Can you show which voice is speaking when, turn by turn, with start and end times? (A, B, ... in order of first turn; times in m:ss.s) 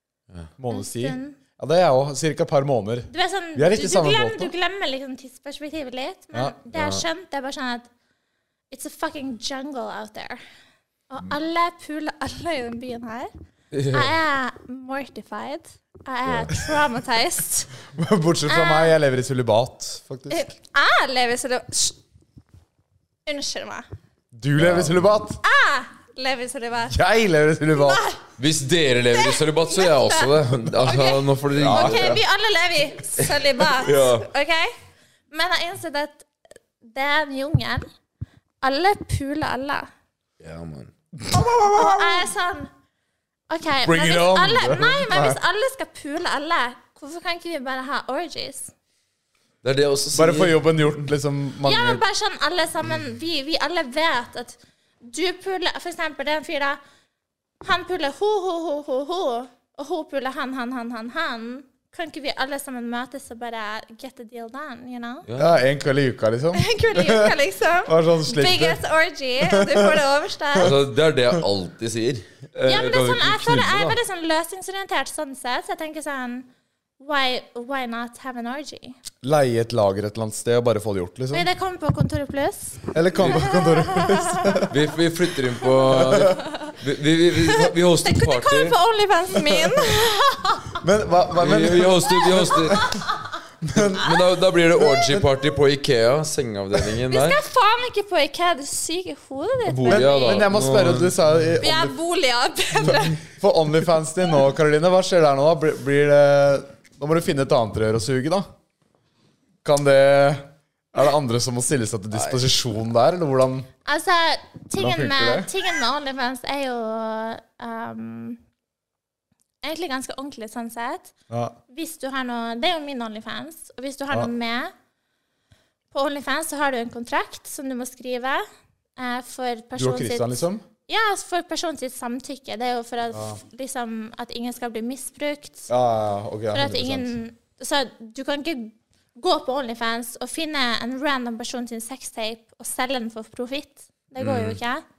0:00.6-0:04.5 A
0:00.7-0:01.4 B
0:03.1-0:07.9 B
0:06.7-0:07.0 C
0:08.7-0:10.4 B
0:11.1-0:13.3 B
0:13.7-0:14.2 C
0:13.9-0:17.7 B
0:16.2-0:16.5 C
0:17.9-0:20.5 A
0:18.5-0:18.9 B
0:20.3-0:22.0 B
0:23.2-0:23.8 B
0:24.3-0:25.4 A
0:24.6-0:25.0 C
0:25.4-0:27.0 B
0:26.9-0:28.0 A
0:27.7-0:28.2 B
0:28.4-0:32.2 C
0:29.1-0:34.7 B
0:31.5-0:32.2 A
0:33.2-0:34.3 C
0:35.3-0:36.2 B
0:36.8-0:37.8 B
0:38.6-0:39.9 B
0:40.4-0:40.9 C
0:41.2-0:42.2 A
0:41.6-0:42.7 B
0:43.5-0:48.7 B
0:43.8-0:45.4 A
0:49.6-0:50.9 C
0:50.1-0:52.0 A
0:51.6-0:56.8 B
0:57.6-1:05.2 B
1:05.2-1:05.6 C
1:05.4-1:07.3 A
1:06.5-1:10.7 B
1:07.8-1:08.8 A
1:09.4-1:10.0 A
1:10.6-1:14.0 C
1:12.6-1:16.5 B
1:17.0-1:19.0 B
1:19.2-1:21.5 A
1:21.3-1:24.7 B
1:22.9-1:24.7 A
1:24.7-1:28.8 C
1:25.9-1:26.4 A
1:26.0-1:26.7 B
1:27.5-1:30.8 B
1:29.5-1:29.8 A
1:30.8-1:32.8 A
1:31.4-1:32.9 C
1:32.1-1:33.4 B
1:33.6-1:34.2 A
1:33.7-1:37.4 C
1:34.8-1:35.2 A
1:37.1-1:40.5 B
1:39.6-1:41.1 C
1:39.9-1:41.9 A
1:41.6-1:43.2 B
1:42.9-1:48.5 A
1:49.6-1:53.7 A
1:53.8-1:58.4 B
1:54.8-1:55.5 A
1:59.6-2:01.1 B
2:01.3-2:01.6 A
2:01.7-2:04.7 B
2:05.9-2:08.4 B
2:09.0-2:15.7 B
2:09.8-2:10.6 A
2:13.1-2:13.4 A
2:15.7-2:17.1 A
2:16.5-2:24.8 B
2:24.2-2:24.6 C